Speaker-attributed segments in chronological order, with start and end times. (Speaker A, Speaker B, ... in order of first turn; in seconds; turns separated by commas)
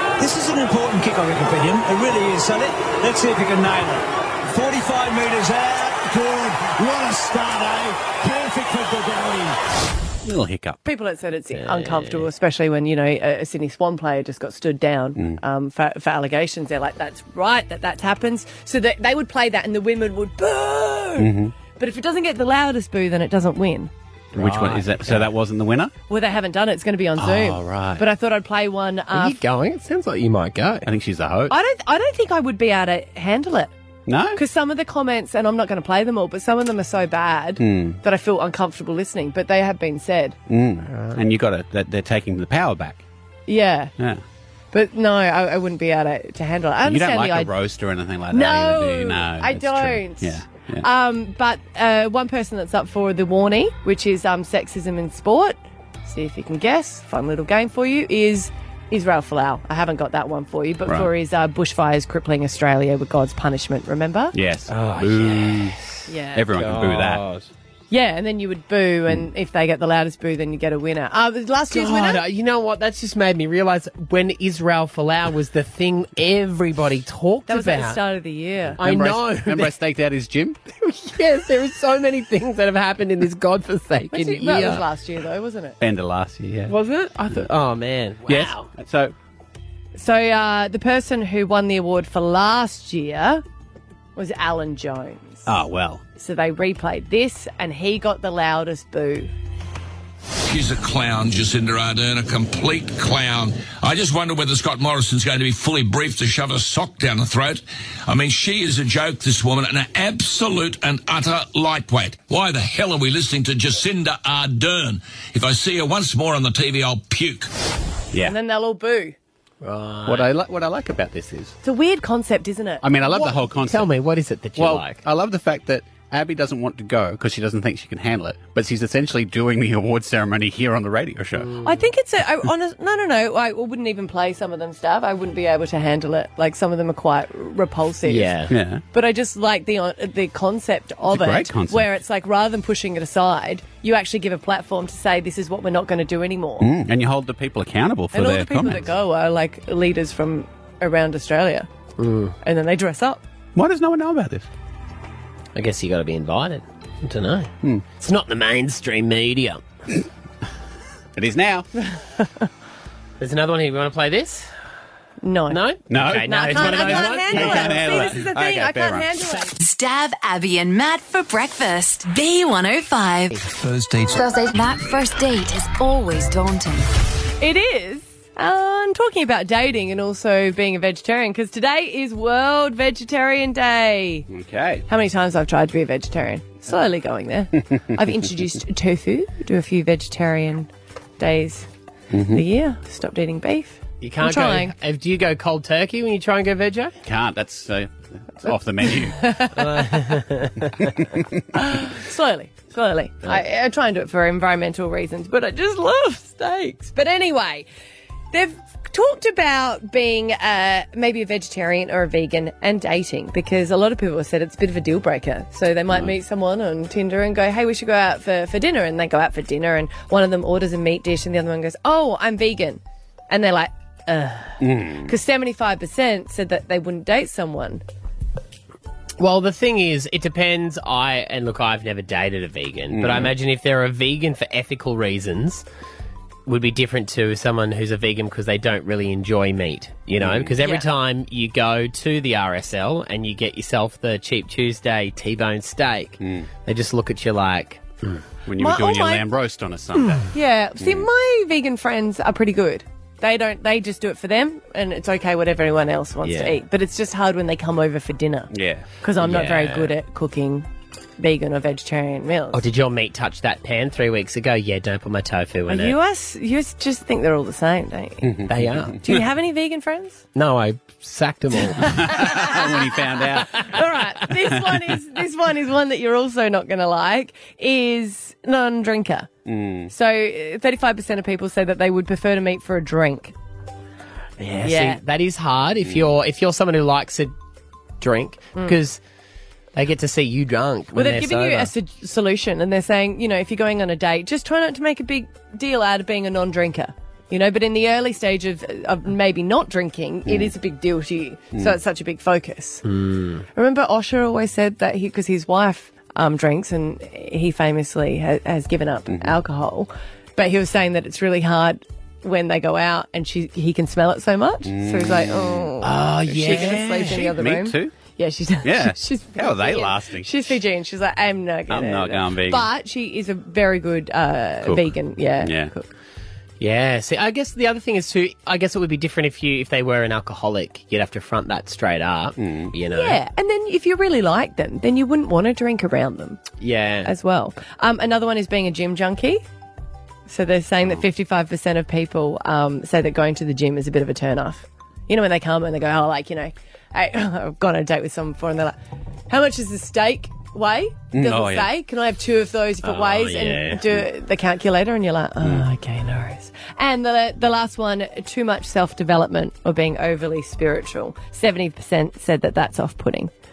Speaker A: 0.2-9.6, Speaker B: 10.2-10.8, Speaker C: 10.8-23.9, Speaker D: 11.5-12.3, Speaker B: 15.1-15.4, Speaker B: 21.2-21.6, Speaker D: 24.3-25.3, Speaker B: 24.4-25.9, Speaker C: 26.1-29.4, Speaker B: 27.2-28.1, Speaker D: 29.1-30.9, Speaker B: 30.9-31.5, Speaker C: 31.5-33.7, Speaker B: 34.1-34.4, Speaker C: 34.3-40.4, Speaker B: 37.6-38.0, Speaker B: 40.5-43.0, Speaker D: 40.9-41.2, Speaker C: 43.5-43.9, Speaker C: 44.7-47.5, Speaker B: 46.8-50.9, Speaker C: 48.3-64.3, Speaker B: 64.3-65.7, Speaker D: 64.7-67.5, Speaker C: 66.1-66.4, Speaker B: 66.3-67.3, Speaker C: 67.9-72.2, Speaker D: 71.7-78.0, Speaker C: 77.5-78.8, Speaker B: 78.7-80.7, Speaker D: 78.8-79.8, Speaker D: 80.8-84.8, Speaker C: 84.1-85.8, Speaker B: 85.8-86.7, Speaker D: 86.7-88.7, Speaker B: 88.2-89.1, Speaker C: 90.0-93.4, Speaker C: 94.2-95.4, Speaker B: 95.5-96.0, Speaker C: 96.2-99.3, Speaker E: 100.4-117.5, Speaker C: 118.2-119.2, Speaker D: 119.6-120.3, Speaker B: 120.1-121.5, Speaker C: 121.6-123.4, Speaker B: 122.8-123.9, Speaker D: 123.2-125.0, Speaker B: 124.6-131.5, Speaker D: 131.3-131.8, Speaker C: 131.6-138.3, Speaker D: 138.1-138.6, Speaker B: 138.5-138.8, Speaker C: 138.9-146.7, Speaker B: 141.1-141.9, Speaker B: 146.6-148.9, Speaker C: 148.1-151.7, Speaker D: 152.0-152.4, Speaker C: 152.4-153.2, Speaker B: 153.6-154.5, Speaker D: 155.6-159.6, Speaker B: 161.1-161.7, Speaker D: 163.2-164.5, Speaker C: 165.2-169.5, Speaker D: 165.5-168.2, Speaker B: 165.9-169.2, Speaker F: 169.6-173.4, Speaker E: 173.9-174.1, Speaker F: 174.1-176.8, Speaker C: 177.4-184.3, Speaker B: 184.3-184.8, Speaker C: 184.9-191.7, Speaker B: 192.1-192.4, Speaker C: 192.2-194.7, Speaker D: 194.0-196.9, Speaker B: 197.0-199.4, Speaker C: 199.2-199.8, Speaker D: 199.3-200.9, Speaker B: 200.8-201.4, Speaker C: 201.6-207.7, Speaker C: 208.3-227.8, Speaker B: 224.6-225.1, Speaker D: 229.2-235.6, Speaker B: 232.9-233.3, Speaker D: 236.4-248.2, Speaker B: 240.2-240.6, Speaker B: 246.2-246.5, Speaker B: 248.4-251.1, Speaker C: 248.6-249.3, Speaker C: 250.3-260.7, Speaker D: 256.2-256.6, Speaker B: 258.5-258.9, Speaker D: 259.2-259.9, Speaker C: 261.2-262.6, Speaker D: 262.5-266.0, Speaker C: 265.7-268.3, Speaker B: 268.2-269.0, Speaker D: 268.5-269.0, Speaker C: 269.0-270.2, Speaker D: 270.4-272.1, Speaker B: 271.8-273.6, Speaker C: 271.8-272.6, Speaker C: 273.6-279.3, Speaker B: 279.4-279.9, Speaker C: 279.9-283.3, Speaker D: 284.4-287.3, Speaker C: 284.6-285.0, Speaker B: 285.8-286.1, Speaker D: 288.0-289.0, Speaker D: 289.7-291.7, Speaker C: 290.9-302.8, Speaker D: 302.8-303.4, Speaker C: 303.5-325.9, Speaker B: 309.1-309.4, Speaker B: 314.6-315.7, Speaker D: 315.8-317.4, Speaker B: 316.4-317.9, Speaker B: 318.6-320.5, Speaker B: 321.7-322.7, Speaker B: 324.6-325.7, Speaker D: 326.6-333.2, Speaker B: 332.4-332.7, Speaker C: 332.9-339.4, Speaker D: 336.6-337.1, Speaker C: 340.3-348.8, Speaker C: 349.3-363.3, Speaker B: 351.1-351.7, Speaker D: 352.8-354.0, Speaker B: 355.4-355.7